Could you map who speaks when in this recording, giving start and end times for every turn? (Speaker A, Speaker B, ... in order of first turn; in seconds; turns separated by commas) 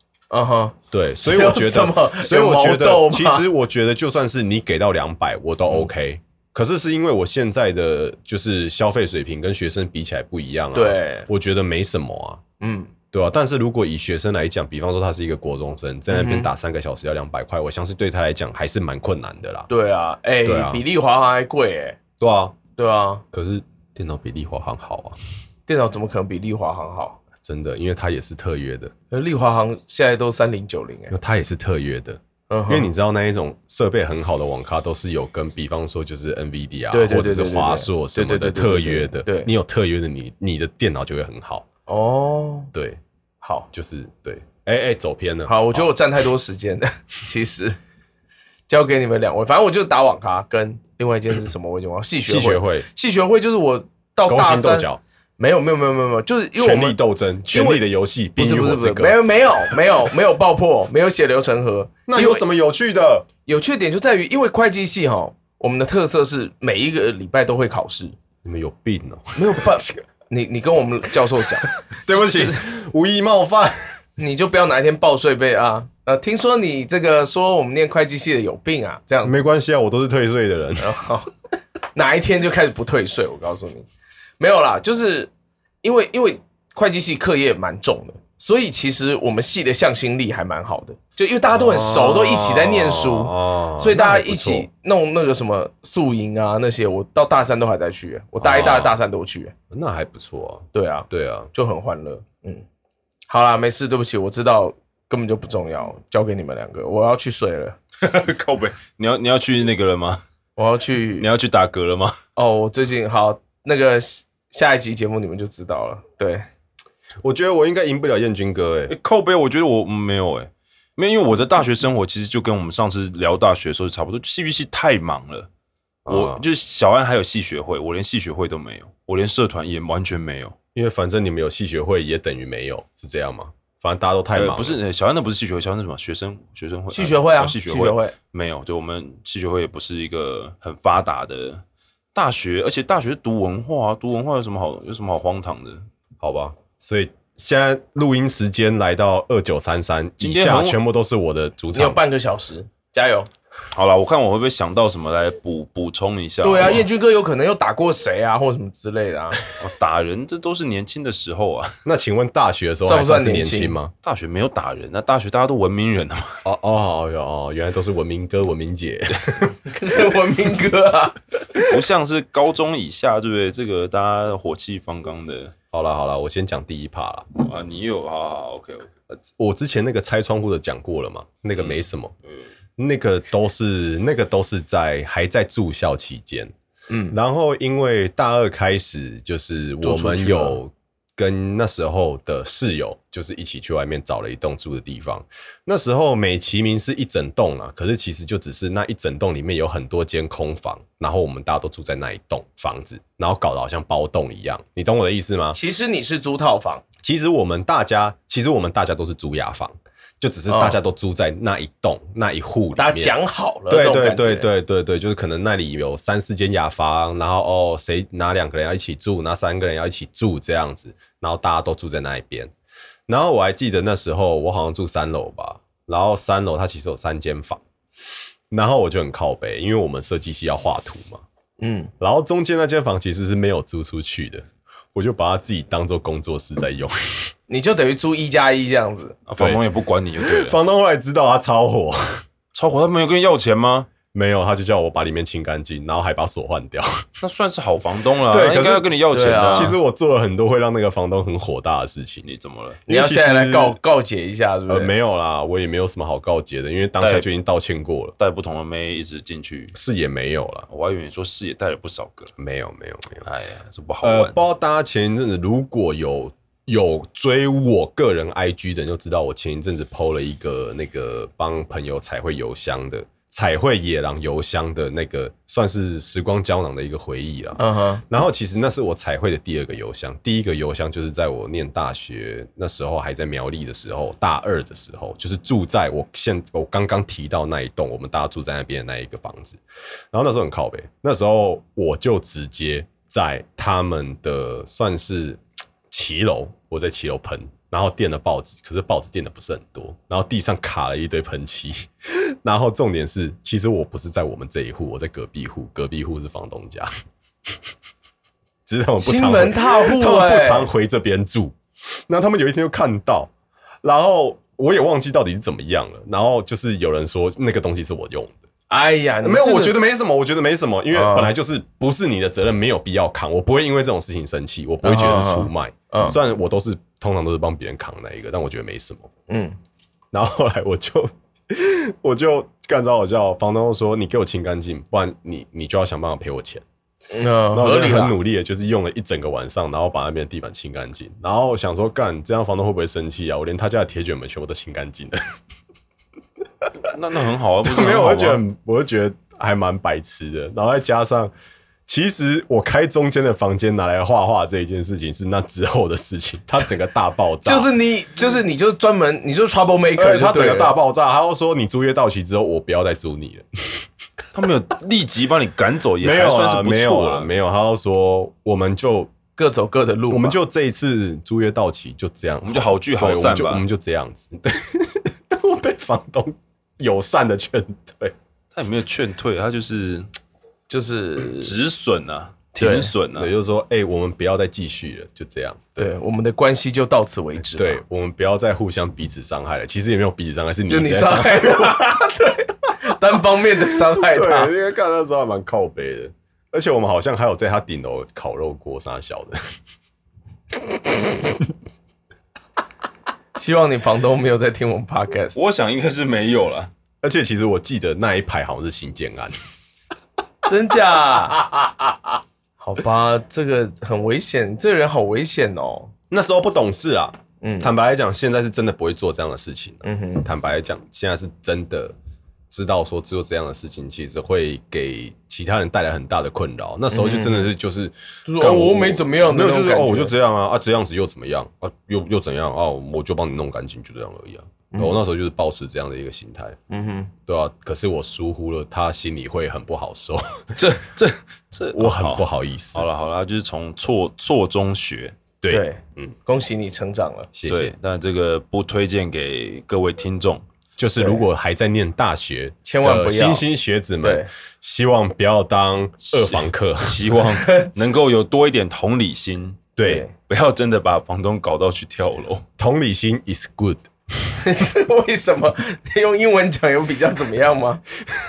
Speaker A: 0.3-3.5, Speaker B: 0.9-12.4, Speaker A: 10.7-11.3, Speaker A: 12.6-12.9, Speaker B: 13.1-19.7, Speaker A: 16.1-16.5, Speaker A: 19.7-22.0, Speaker B: 20.4-20.8, Speaker B: 22.2-22.6, Speaker A: 22.8-23.2, Speaker B: 23.3-25.2, Speaker A: 25.7-27.2, Speaker B: 27.4-28.9, Speaker A: 29.1-31.1, Speaker B: 31.1-41.6, Speaker A: 32.5-32.9, Speaker A: 36.9-39.5, Speaker A: 41.9-42.7, Speaker B: 42.7-43.0, Speaker A: 43.4-43.7, Speaker B: 43.7-45.9, Speaker A: 45.5-47.8, Speaker A: 48.7-57.0, Speaker B: 52.2-52.9, Speaker B: 54.2-55.0, Speaker B: 56.6-59.8, Speaker A: 57.5-57.8, Speaker A: 58.4-62.4, Speaker B: 62.1-63.3, Speaker A: 63.5-68.1, Speaker B: 68.4-70.0, Speaker A: 69.3-72.6, Speaker B: 71.9-73.8, Speaker A: 74.2-79.4, Speaker B: 79.2-80.9, Speaker A: 80.8-81.3, Speaker A: 81.9-83.9, Speaker A: 84.4-85.3, Speaker A: 85.8-99.5, Speaker B: 91.5-94.7, Speaker B: 98.4-99.0, Speaker B: 99.7-101.5, Speaker A: 100.7-102.6, Speaker A: 103.3-107.8, Speaker C: 108.0-110.2, Speaker A: 110.6-111.2, Speaker C: 111.2-112.2, Speaker A: 112.3-116.5, Speaker B: 117.2-118.9, Speaker C: 118.9-125.5, Speaker B: 126.0-126.4, Speaker C: 126.1-130.5, Speaker B: 130.7-134.8, Speaker C: 134.3-141.6, Speaker A: 136.9-138.1, Speaker C: 142.1-145.8, Speaker B: 146.2-152.0, Speaker C: 150.2-150.8, Speaker A: 151.7-153.3, Speaker C: 153.7-156.8, Speaker A: 156.4-159.4, Speaker C: 159.6-161.7, Speaker B: 161.8-163.9, Speaker A: 162.8-163.8, Speaker C: 164.0-166.3, Speaker B: 166.4-169.6, Speaker A: 169.7-171.2, Speaker C: 171.6-175.5, Speaker B: 175.7-177.3, Speaker C: 177.4-178.9, Speaker B: 179.1-182.1, Speaker C: 181.5-182.4, Speaker B: 182.8-186.5, Speaker A: 186.9-187.2, Speaker B: 187.1-205.6, Speaker A: 189.8-190.6, Speaker A: 205.5-206.8, Speaker B: 207.0-213.2, Speaker A: 210.5-210.8, Speaker A: 212.7-214.5, Speaker B: 213.7-222.5, Speaker B: 223.1-227.6, Speaker B: 228.5-231.2, Speaker A: 231.6-231.9, Speaker B: 232.0-237.3, Speaker A: 237.5-239.2, Speaker C: 239.3-240.6, Speaker B: 240.2-242.2, Speaker C: 242.5-243.9, Speaker B: 244.1-247.0, Speaker C: 247.2-249.7, Speaker B: 248.3-248.9, Speaker A: 249.1-249.8, Speaker B: 249.5-252.2, Speaker C: 252.2-252.8, Speaker B: 252.9-253.8, Speaker A: 252.9-254.9, Speaker B: 254.7-258.1, Speaker C: 257.0-257.3, Speaker C: 258.2-259.7, Speaker B: 259.7-260.7, Speaker C: 260.7-262.3, Speaker B: 262.4-263.2, Speaker C: 263.2-264.4, Speaker B: 264.0-289.6, Speaker A: 277.6-278.0, Speaker B: 290.1-306.9, Speaker B: 308.6-311.6, Speaker A: 309.0-310.7, Speaker B: 312.1-313.3, Speaker B: 313.8-318.4, Speaker A: 318.7-319.8, Speaker B: 319.2-329.1, Speaker A: 320.9-321.3, Speaker A: 324.8-326.2, Speaker A: 329.3-329.6, Speaker B: 330.1-336.6, Speaker A: 337.1-338.2, Speaker B: 337.5-345.2, Speaker C: 346.8-348.4, Speaker B: 347.6-351.3, Speaker B: 351.9-357.7, Speaker A: 357.4-360.7, Speaker B: 359.9-363.9, Speaker C: 364.3-367.3, Speaker B: 366.0-369.1, Speaker A: 369.4-370.4, Speaker B: 370.1-378.1, Speaker C: 372.4-373.6, Speaker C: 378.5-380.1, Speaker A: 380.7-381.5, Speaker C: 381.2-383.3, Speaker A: 382.6-382.9, Speaker B: 383.1-385.9, Speaker A: 385.8-387.8, Speaker B: 387.6-391.9, Speaker A: 390.7-394.5, Speaker B: 393.2-399.4, Speaker B: 400.9-401.4, Speaker A: 403.4-405.4, Speaker C: 405.3-406.7, Speaker B: 407.0-409.3, Speaker A: 410.4-411.4, Speaker B: 411.1-412.2, Speaker A: 412.6-415.9, Speaker B: 416.1-421.9, Speaker A: 417.4-417.7, Speaker A: 419.8-420.3, Speaker B: 422.5-436.6, Speaker A: 426.9-427.5, Speaker A: 428.2-430.1, Speaker A: 434.7-435.0, Speaker A: 436.7-437.1, Speaker B: 437.2-440.5, Speaker C: 440.5-445.2, Speaker B: 441.7-442.9, Speaker B: 445.4-446.1, Speaker A: 445.5-447.3, Speaker B: 447.3-447.7, Speaker C: 447.5-450.4, Speaker B: 450.8-457.0, Speaker A: 452.6-453.4, Speaker A: 454.0-454.3, Speaker C: 456.0-462.4, Speaker A: 457.3-457.8, Speaker B: 459.8-460.1, Speaker A: 459.8-460.1, Speaker B: 462.6-463.9, Speaker A: 464.4-467.8